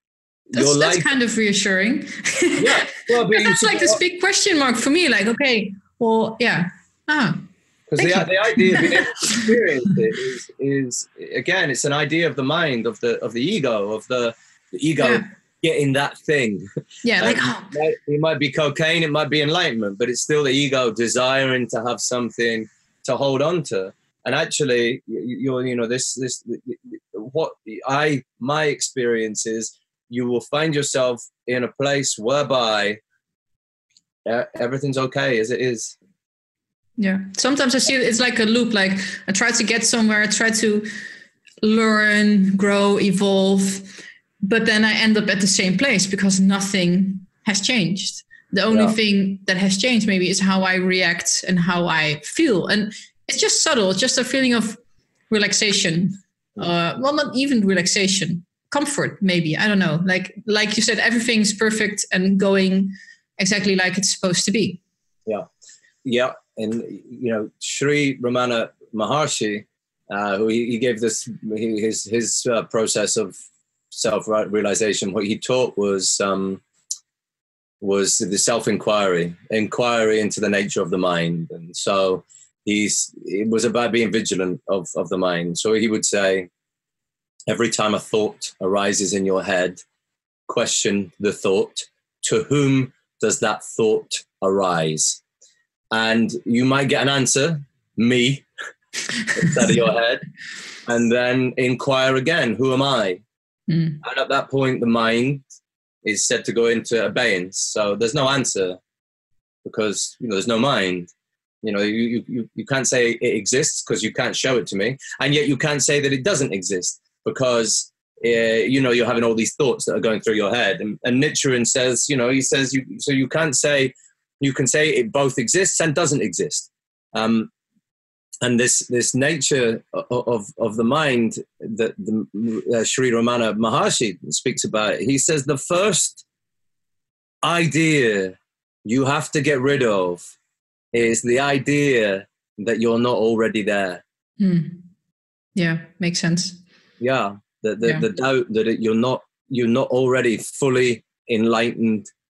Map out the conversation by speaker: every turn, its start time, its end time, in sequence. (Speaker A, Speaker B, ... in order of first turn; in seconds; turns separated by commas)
Speaker A: 0.5-1.1, Speaker B: 0.5-7.4, Speaker A: 2.6-4.0, Speaker A: 7.9-16.7, Speaker B: 8.0-9.5, Speaker B: 15.0-15.2, Speaker B: 17.0-17.8, Speaker A: 17.2-33.0, Speaker A: 34.2-36.0, Speaker B: 37.0-40.9, Speaker B: 41.6-64.8, Speaker A: 66.0-73.3, Speaker A: 73.9-76.6, Speaker A: 77.8-86.5, Speaker A: 87.5-89.8, Speaker A: 90.5-95.2, Speaker A: 95.9-98.5, Speaker A: 99.3-100.2, Speaker A: 100.8-103.2, Speaker B: 103.7-104.0, Speaker A: 104.0-105.4, Speaker A: 106.0-108.8, Speaker A: 109.6-111.1, Speaker A: 111.6-127.5, Speaker A: 128.4-136.2, Speaker A: 137.4-140.2, Speaker A: 140.9-144.0, Speaker B: 144.4-144.8, Speaker B: 145.6-146.6, Speaker A: 147.0-152.1